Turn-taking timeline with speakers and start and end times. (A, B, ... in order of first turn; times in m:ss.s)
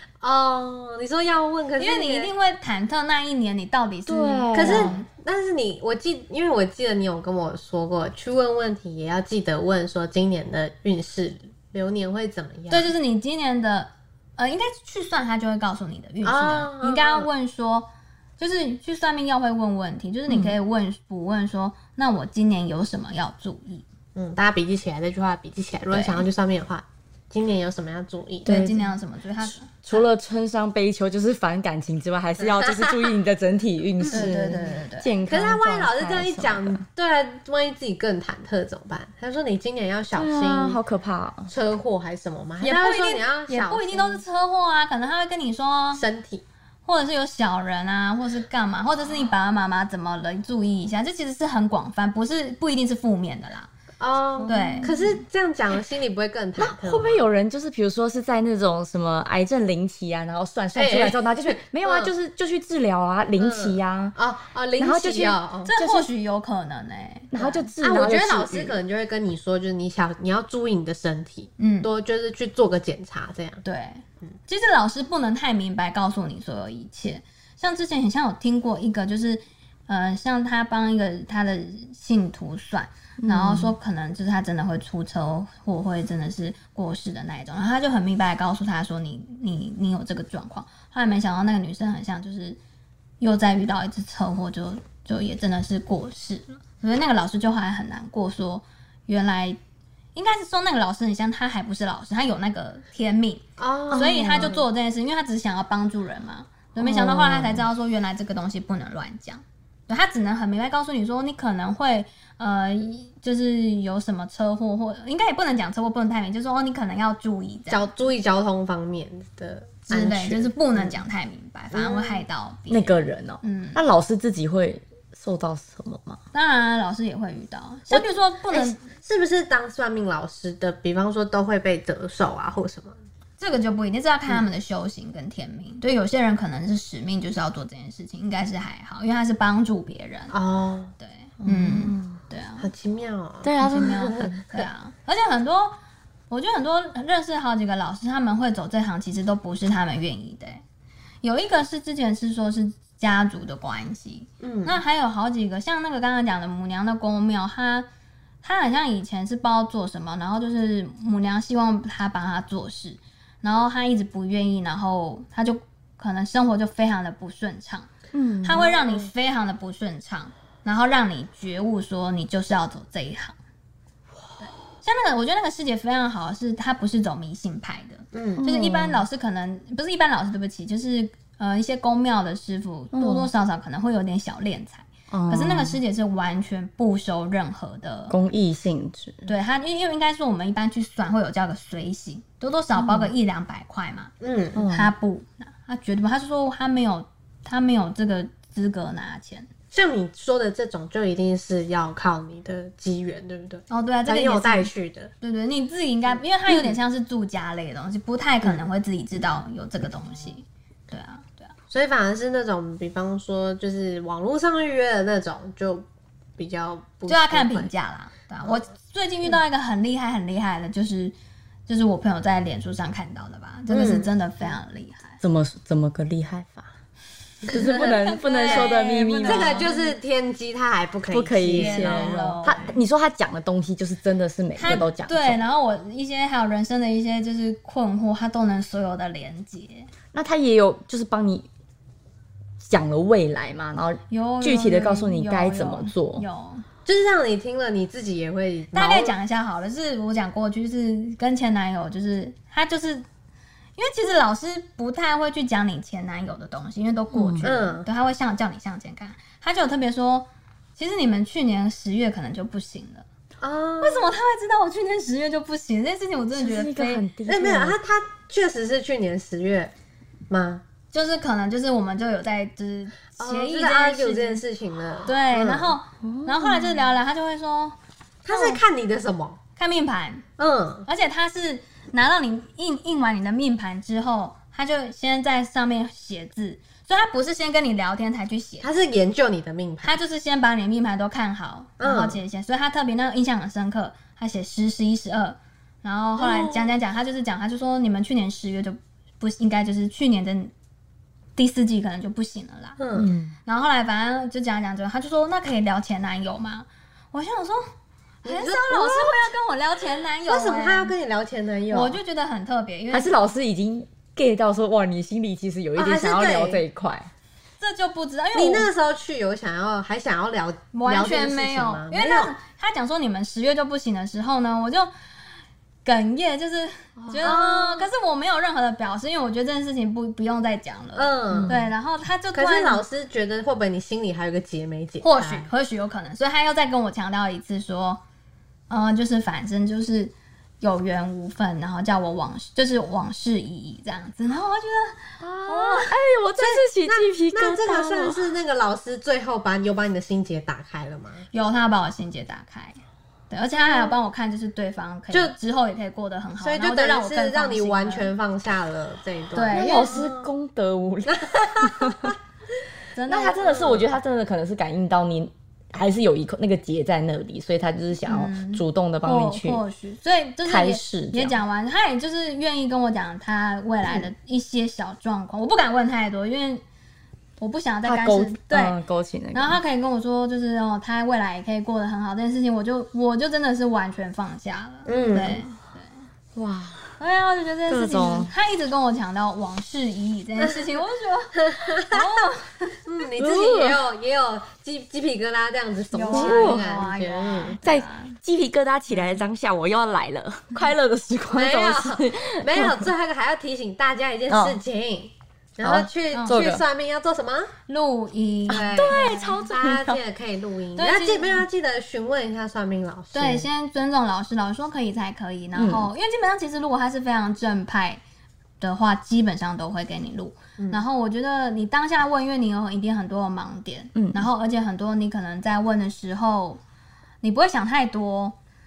0:00.2-0:02.3 A
0:01.8-0:05.1 B
0:04.1-0:05.0 C
0:04.5-0:12.9 A
0:12.7-0:23.8 B
0:16.2-0:17.3 A
0:20.3-0:20.6 C
0:24.2-0:28.8 A
0:25.9-0:26.2 B
0:28.5-0:28.8 C
0:28.5-0:30.0 B
0:29.7-0:36.8 C
0:32.6-0:32.9 A
0:34.1-0:34.4 A
0:34.1-0:35.1 B
0:35.3-0:40.8 A
0:40.1-0:41.5 C
0:41.5-0:44.2 A
0:42.6-0:46.0 B
0:45.9-0:46.4 A
0:46.9-0:53.7 B
0:54.0-0:57.2 A
0:54.4-0:54.9 C
0:54.5-0:55.2 B
0:56.6-1:04.2 C
1:00.8-1:02.1 A
1:03.4-1:05.7 A
1:04.8-1:06.1 C
1:05.7-1:07.7 B
1:07.3-1:08.8 C
1:07.8-1:13.6 A
1:11.6-1:11.9 B
1:13.6-1:32.6 B
1:23.2-1:23.8 C
1:33.2-1:39.6 B
1:40.2-1:57.9 B
1:43.6-1:44.6 A
1:43.9-1:44.6 C
1:46.8-1:47.6 A
1:57.7-2:01.0 A
1:59.9-2:03.8 B
2:01.7-2:02.2 A
2:02.7-2:06.2 C
2:06.3-2:08.8 B
2:07.9-2:13.0 A
2:13.4-2:20.3 B
2:20.3-2:20.9 A
2:21.0-2:22.7 B
2:21.4-2:22.2 C
2:22.6-2:24.6 A
2:23.4-2:24.4 C
2:23.6-2:25.8 B
2:26.3-2:30.6 B
2:31.2-2:37.9 B
2:34.4-2:34.8 A
2:38.4-2:47.9 B
2:48.1-2:48.7 C
2:48.4-2:53.4 B
2:48.6-2:49.0 A
2:54.4-3:08.2 B
2:58.1-2:58.4 A
2:58.4-2:59.1 C
3:02.9-3:03.3 C
3:05.1-3:05.8 C
3:08.1-3:09.3 C
3:09.3-3:14.1 B
3:12.8-3:13.1 C
3:14.2-3:14.6 A
3:14.6-3:14.9 C
3:14.7-3:19.5 B
3:19.7-3:25.1 A
3:23.7-3:31.5 B
3:31.7-3:35.8 A
3:36.4-3:37.7 A
3:37.1-3:41.1 B
3:41.7-3:45.2 B
3:43.7-3:44.1 A
3:45.2-3:46.7 C
3:47.5-3:47.9 A
3:47.5-3:49.7 C
3:47.5-3:50.0 B
3:49.2-3:52.7 A
3:51.1-3:55.4 C
3:51.5-3:52.7 B
3:54.6-3:59.9 B
4:00.1-4:01.5 C
4:02.6-4:06.2 C
4:04.1-4:06.6 B
4:06.9-4:09.1 A
4:08.7-4:13.0 B
4:13.8-4:23.0 B
4:17.1-4:17.5 C
4:17.4-4:17.9 A
4:23.4-4:24.2 A
4:23.8-4:27.0 B
4:26.4-4:27.8 C
4:27.3-4:29.7 A
4:30.3-4:30.6 A
4:30.9-4:34.4 B
4:33.2-4:35.8 A
4:35.1-4:37.8 B
4:36.0-4:36.8 C
4:38.2-4:39.4 A
4:38.3-4:38.6 B
4:39.6-4:40.2 B
4:40.4-4:40.9 A
4:40.9-4:48.7 B
4:48.6-4:50.0 A
4:49.8-5:00.5 B
4:51.8-4:52.2 A
4:56.2-4:56.7 A
5:01.4-5:02.8 B
5:02.8-5:03.1 A
5:03.0-5:03.3 C
5:03.5-5:07.6 B
5:08.2-5:10.9 B
5:08.2-5:09.3 A
5:10.3-5:12.0 A
5:11.7-5:13.1 B
5:12.9-5:17.1 C
5:15.8-5:16.6 A
5:17.6-5:18.7 B
5:18.4-5:22.3 A
5:20.7-5:24.9 B
5:25.8-5:32.8 B
5:27.1-5:27.9 A
5:31.0-5:31.6 A
5:31.3-5:31.6 C
5:32.3-5:35.5 A
5:35.0-5:38.0 B
5:38.7-5:46.0 B
5:45.2-5:48.3 C
5:46.4-5:51.3 A
5:51.3-5:52.8 B
5:53.3-5:58.1 B
5:53.6-5:53.9 A
5:56.4-6:00.3 A
5:59.4-6:00.0 B
5:59.5-6:02.2 C
6:01.1-6:02.1 A
6:03.0-6:03.6 B
6:03.1-6:09.6 C
6:03.4-6:03.9 A
6:08.0-6:16.6 B
6:10.4-6:11.4 C
6:17.4-6:18.8 B
6:17.8-6:19.6 C
6:19.3-6:26.0 B
6:24.9-6:25.4 A
6:26.4-6:27.0 C
6:27.0-6:32.8 B
6:27.7-6:28.3 C
6:31.4-6:32.3 A
6:32.8-6:37.6 A
6:33.2-6:33.8 C
6:35.9-6:38.2 B
6:36.1-6:36.6 C
6:37.6-6:42.9 C
6:41.3-6:47.5 A
6:44.3-6:44.6 C
6:45.6-6:46.6 C
6:46.1-6:46.4 B
6:47.7-6:49.4 B
6:48.5-6:50.0 C
6:48.7-6:53.5 A
6:50.8-6:51.4 B
6:53.1-6:58.0 B
6:55.6-6:55.9 C
6:58.6-7:06.6 B
7:00.6-7:00.8 A
7:04.0-7:04.3 C
7:07.2-7:08.4 B